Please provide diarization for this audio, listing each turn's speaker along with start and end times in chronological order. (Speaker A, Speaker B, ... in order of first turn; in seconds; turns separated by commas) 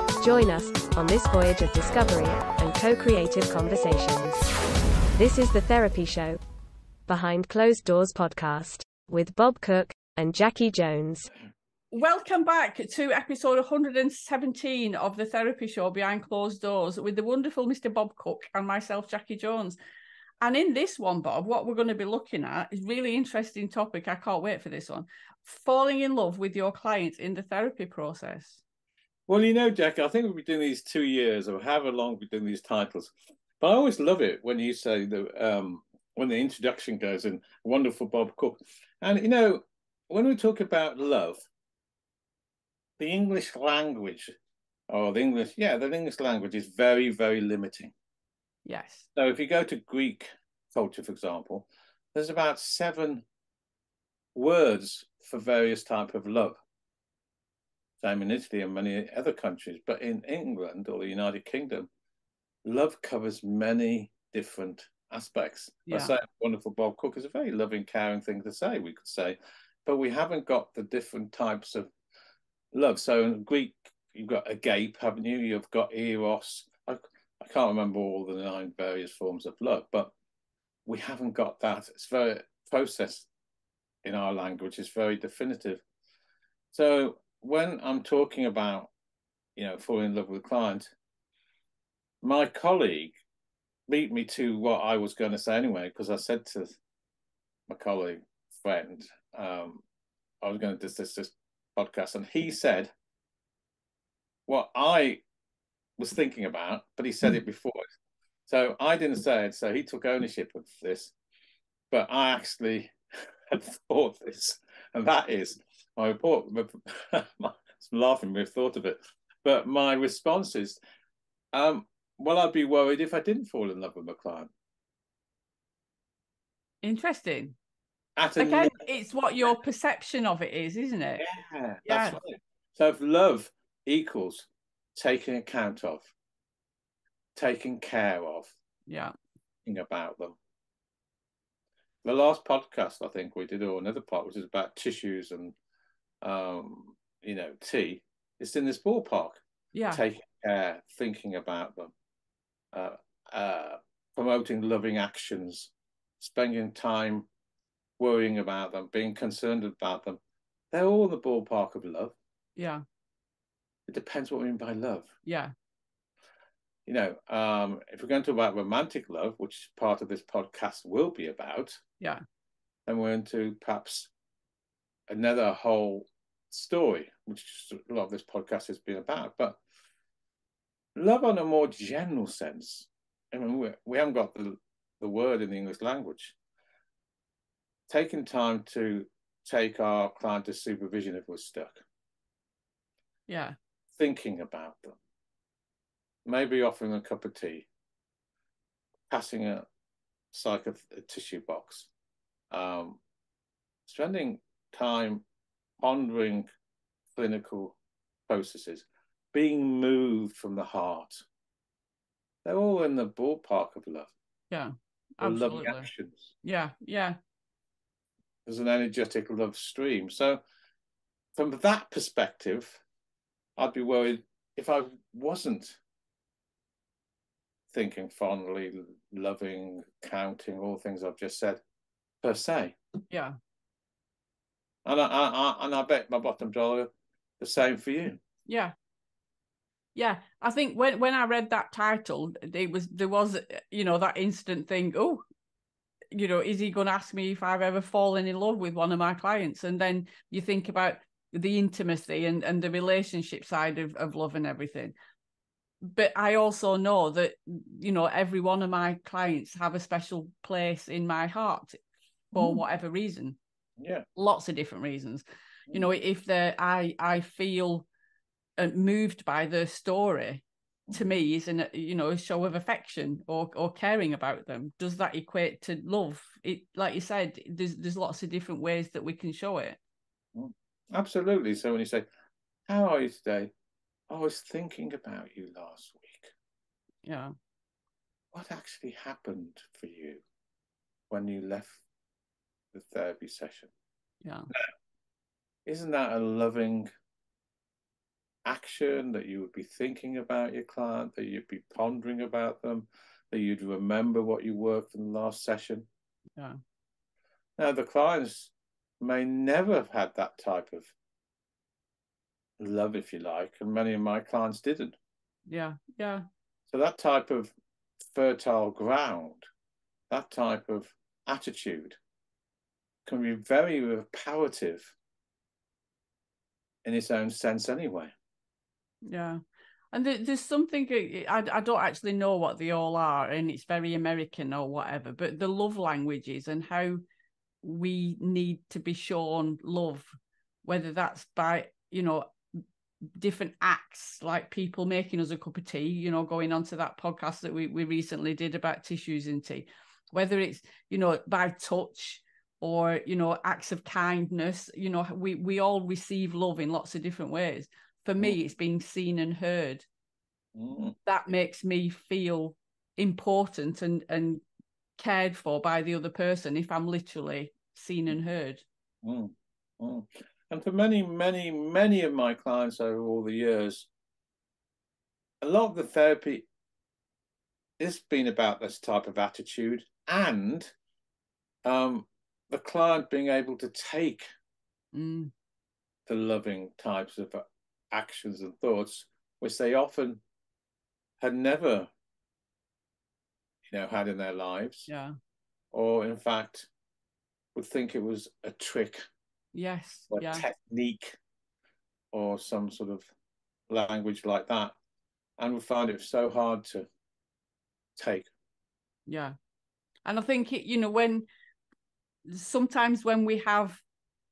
Speaker A: 0.2-4.4, Speaker A: 5.1-6.4, Speaker A: 7.1-11.3, Speaker B: 11.9-19.8, Speaker B: 20.4-28.6, Speaker C: 29.3-41.4, Speaker C: 43.0-44.3, Speaker C: 44.9-47.9, Speaker B: 48.6-49.1, Speaker C: 49.1-53.2, Speaker C: 54.3-56.6, Speaker C: 58.0-61.9, Speaker C: 62.6-71.9, Speaker B: 65.9-66.1, Speaker C: 72.7-80.1, Speaker C: 80.8-83.3, Speaker C: 84.0-85.8, Speaker C: 86.7-88.9, Speaker C: 89.5-90.9, Speaker C: 92.2-93.2, Speaker C: 93.9-96.8, Speaker C: 97.7-99.8, Speaker C: 100.4-102.9, Speaker C: 104.5-105.2, Speaker C: 106.0-107.8, Speaker C: 108.5-111.1, Speaker C: 111.9-113.0, Speaker C: 113.5-120.8, Speaker C: 121.5-124.5, Speaker B: 126.8-127.5, Speaker C: 128.2-128.8, Speaker B: 128.4-131.2, Speaker C: 131.2-136.1, Speaker B: 131.8-132.2, Speaker C: 137.3-138.5, Speaker B: 138.9-139.1, Speaker C: 139.7-140.4, Speaker C: 142.0-145.6, Speaker C: 146.2-151.9, Speaker B: 149.7-150.0, Speaker C: 152.7-157.3, Speaker C: 158.0-160.2, Speaker C: 160.7-162.1, Speaker B: 162.6-162.8, Speaker C: 163.9-165.1, Speaker B: 165.2-165.5, Speaker C: 166.8-171.8, Speaker C: 172.8-174.1, Speaker C: 175.1-179.6, Speaker C: 180.9-186.3, Speaker C: 187.9-191.8, Speaker B: 193.3-193.6, Speaker C: 193.9-195.0, Speaker C: 196.2-197.7, Speaker C: 199.1-199.7, Speaker C: 200.3-201.9, Speaker C: 202.5-203.0, Speaker C: 203.9-205.2, Speaker C: 205.8-206.5, Speaker C: 207.1-207.8, Speaker C: 208.3-211.2, Speaker C: 212.4-214.1, Speaker B: 214.5-215.9, Speaker C: 215.2-216.3, Speaker B: 216.4-217.2, Speaker C: 218.4-220.4, Speaker C: 221.3-222.8, Speaker C: 223.6-225.8, Speaker C: 227.7-231.6, Speaker C: 232.2-232.8, Speaker C: 234.8-238.2, Speaker B: 238.5-238.7, Speaker B: 239.9-245.2, Speaker B: 246.1-254.9, Speaker B: 255.8-261.8, Speaker B: 262.3-263.4, Speaker C: 262.3-262.6, Speaker C: 263.8-264.1, Speaker B: 264.1-267.9, Speaker B: 268.6-279.8, Speaker C: 280.3-282.1, Speaker C: 282.7-283.5, Speaker C: 284.1-286.3, Speaker B: 287.1-287.3, Speaker C: 288.3-290.2, Speaker C: 291.1-291.8, Speaker C: 292.7-293.7, Speaker B: 294.2-294.5, Speaker C: 295.6-296.9, Speaker C: 298.4-305.9, Speaker C: 307.6-310.9, Speaker C: 312.6-314.9, Speaker B: 315.5-316.2, Speaker C: 316.7-319.5, Speaker C: 320.1-322.0, Speaker C: 323.1-324.9, Speaker C: 326.8-328.1, Speaker B: 329.1-329.4, Speaker B: 329.9-337.0, Speaker B: 337.6-340.1, Speaker B: 340.6-342.6, Speaker B: 343.2-359.9, Speaker C: 360.5-360.9, Speaker B: 361.1-364.4, Speaker B: 365.0-368.6, Speaker C: 369.0-373.9, Speaker C: 375.4-376.5, Speaker C: 377.8-380.7, Speaker C: 381.6-384.3, Speaker B: 384.9-385.3, Speaker C: 386.1-390.2, Speaker C: 391.2-391.9, Speaker C: 393.7-394.9, Speaker B: 394.9-395.1, Speaker C: 395.7-396.7, Speaker C: 397.5-399.1, Speaker B: 399.5-400.4, Speaker C: 400.1-401.1, Speaker C: 402.1-403.1, Speaker C: 403.7-404.7, Speaker C: 405.4-406.9, Speaker C: 407.9-408.3, Speaker B: 409.1-409.4, Speaker B: 410.1-411.2, Speaker B: 412.3-413.8